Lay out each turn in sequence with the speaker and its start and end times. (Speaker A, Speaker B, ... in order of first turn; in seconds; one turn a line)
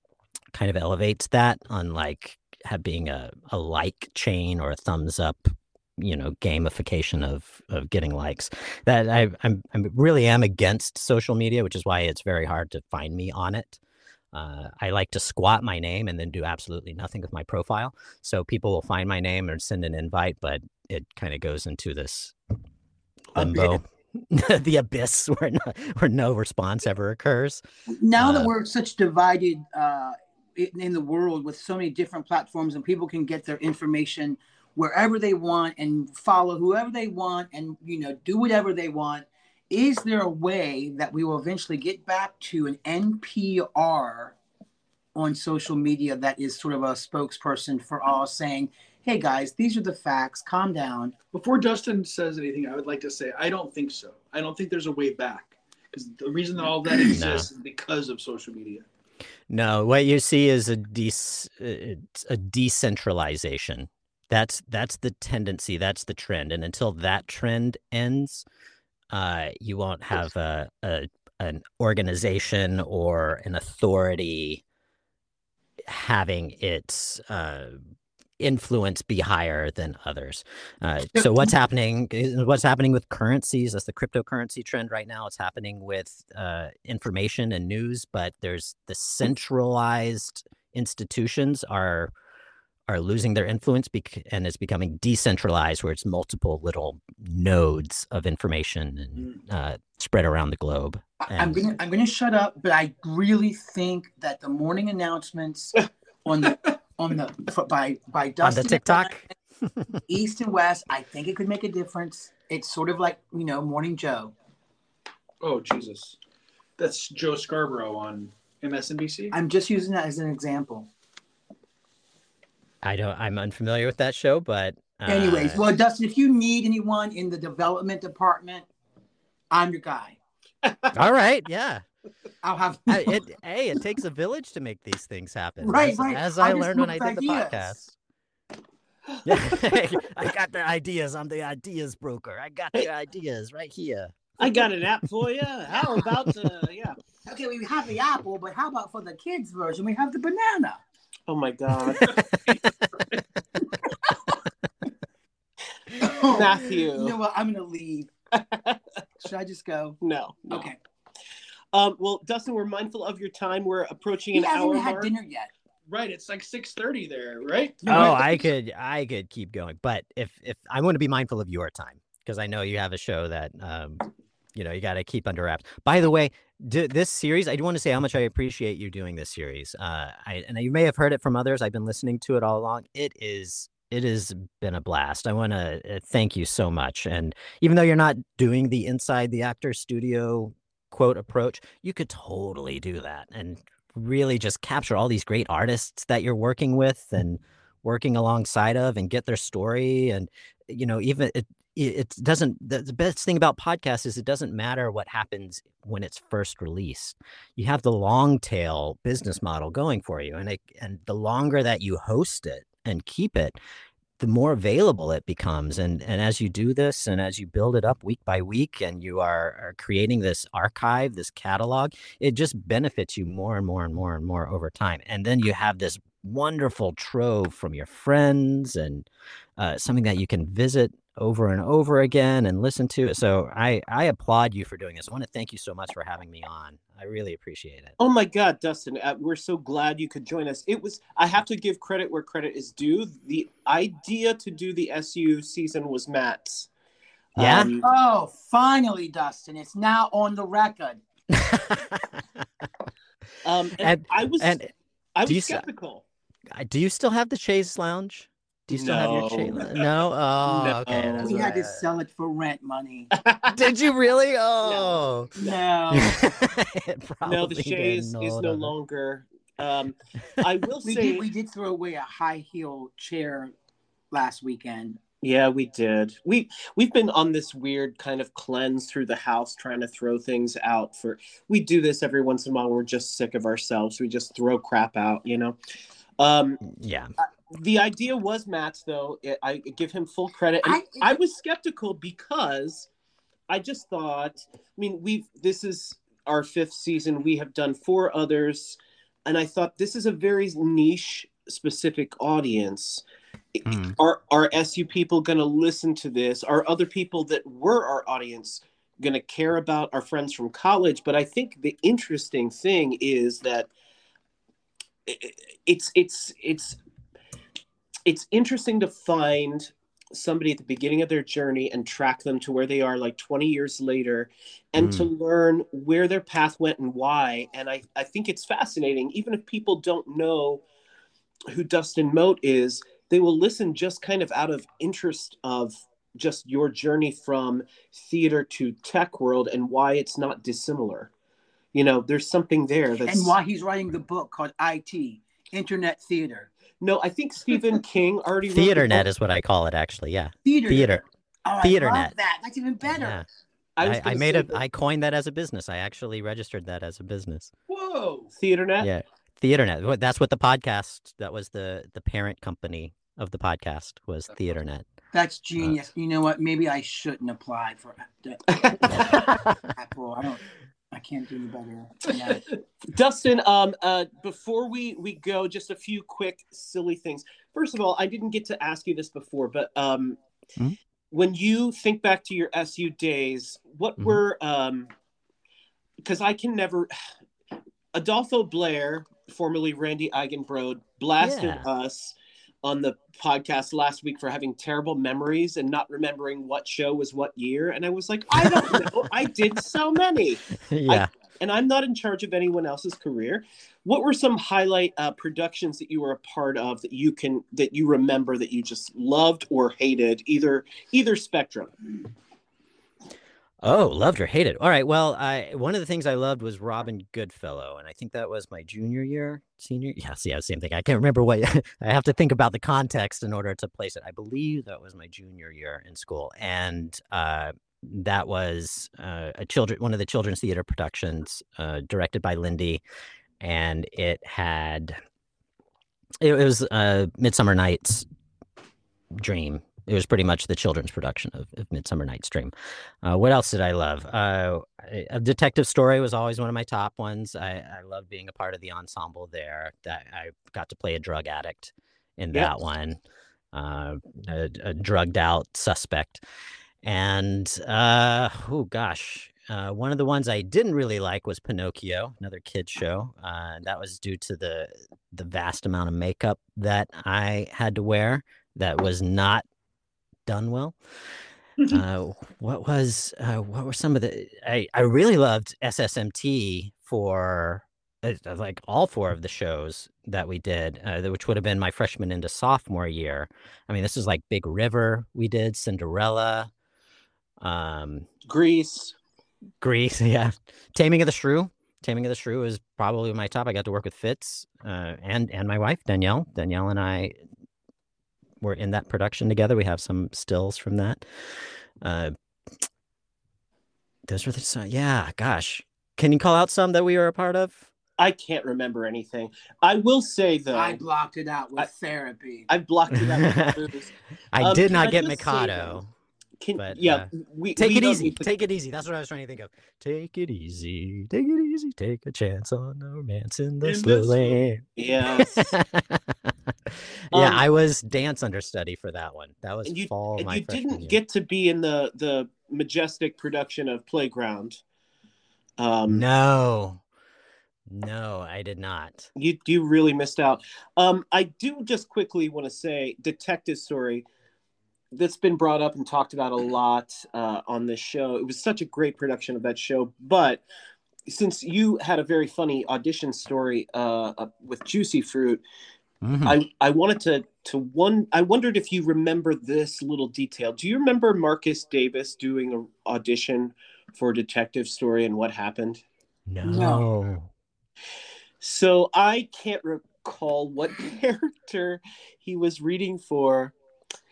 Speaker A: 0.5-13.8
Speaker A: 14.3-22.3
Speaker A: 23.3-27.6
Speaker B: 23.3-23.8
Speaker B: 27.9-44.4
Speaker A: 28.2-28.5
Speaker B: 45.1-51.1
Speaker C: 51.3-58.8
Speaker A: 57.1-57.5
Speaker A: 59.5-68.5
Speaker A: 69.1-74.6
Speaker A: 75.9-77.8
Speaker A: 78.4-92.1
Speaker A: 92.9-101.6
Speaker B: 101.2-109.2
Speaker A: 108.4-109.3
Speaker B: 110.0-114.3
Speaker C: 115.4-116.2
Speaker C: 116.8-119.3
Speaker B: 119.3-120.9
Speaker A: 122.8-125.6
Speaker B: 125.1-128.7
Speaker B: 129.5-130.2
Speaker D: 130.6-130.9
Speaker A: 130.9-131.8
Speaker B: 132.4-133.2
Speaker A: 132.9-137.9
Speaker B: 135.6-137.8
Speaker A: 139.2-144.4
Speaker D: 144.4-147.0
Speaker B: 147.2-150.8
Speaker D: 151.3-152.2
Speaker A: 151.9-152.9
Speaker C: 152.0-153.2
Speaker B: 156.0-158.1
Speaker D: 156.2-157.1
Speaker D: 158.3-158.8
Speaker B: 159.2-160.0
Speaker D: 160.0-160.7
Speaker B: 160.5-160.8
Speaker D: 161.7-165.1
Speaker B: 164.3-165.5
Speaker C: 165.9-168.4
Speaker A: 167.8-174.0
Speaker B: 167.9-168.2
Speaker A: 174.5-213.6
Speaker A: 214.2-229.1
Speaker A: 229.6-237.9
Speaker D: 238.0-246.7
Speaker D: 247.3-247.9
Speaker A: 247.3-247.7
Speaker B: 247.8-251.0
Speaker A: 251.3-252.4
Speaker D: 253.4-254.6
Speaker A: 253.8-254.7
Speaker D: 255.2-256.0
Speaker A: 255.2-255.6
Speaker A: 256.5-261.8
Speaker D: 258.7-259.9
Speaker D: 260.4-261.4
Speaker B: 261.2-263.1
Speaker D: 263.1-263.7
Speaker A: 263.5-265.3
Speaker D: 264.6-265.5
Speaker B: 265.4-266.2
Speaker A: 265.9-268.7
Speaker D: 267.2-271.3
Speaker B: 270.8-273.5
Speaker B: 274.1-275.0
Speaker D: 275.2-285.6
Speaker D: 286.2-286.6
Speaker A: 286.6-287.1
Speaker D: 287.5-292.9
Speaker B: 290.6-291.2
Speaker D: 293.5-303.0
Speaker D: 303.5-313.7
Speaker A: 303.7-304.0
Speaker D: 315.1-316.8
Speaker D: 318.1-330.6
Speaker A: 324.8-325.1
Speaker D: 331.5-341.1
Speaker D: 341.7-343.3
Speaker B: 343.1-346.5
Speaker D: 346.8-349.1
Speaker A: 348.5-351.0
Speaker B: 350.4-353.2
Speaker A: 351.6-352.1
Speaker A: 352.9-353.2
Speaker D: 353.8-354.6
Speaker A: 353.8-357.5
Speaker C: 357.7-358.3
Speaker D: 358.3-358.9
Speaker A: 358.8-364.9
Speaker B: 365.1-372.4
Speaker D: 368.6-369.1
Speaker A: 368.9-369.7
Speaker D: 372.9-380.2
Speaker D: 381.1-384.9
Speaker D: 386.0-386.9
Speaker D: 387.9-411.7
Speaker A: 391.2-391.6
Speaker A: 400.7-401.1
Speaker A: 413.6-432.8
Speaker A: 433.4-434.9
Speaker A: 436.2-438.1
Speaker A: 439.1-442.5
Speaker A: 443.0-453.0
Speaker A: 453.5-456.2
Speaker A: 456.8-469.4
Speaker A: 470.3-470.8
Speaker A: 471.6-486.5
Speaker A: 487.4-488.1
Speaker D: 488.2-488.9
Speaker A: 489.6-497.1
Speaker A: 498.4-502.1
Speaker A: 504.1-507.7
Speaker D: 508.0-510.8
Speaker B: 510.5-512.5
Speaker D: 512.5-515.8
Speaker A: 512.9-513.6
Speaker A: 514.3-515.9
Speaker D: 516.4-518.3
Speaker A: 516.6-531.0
Speaker C: 523.6-524.4
Speaker D: 524.8-525.3
Speaker D: 527.1-527.4
Speaker D: 529.6-534.6
Speaker D: 535.6-536.0
Speaker A: 535.9-536.8
Speaker A: 537.7-539.1
Speaker D: 539.1-544.0
Speaker D: 544.9-550.4
Speaker D: 551.0-555.4
Speaker A: 556.0-556.4
Speaker D: 556.2-565.8
Speaker A: 566.3-567.3
Speaker B: 566.4-566.9
Speaker D: 568.4-573.5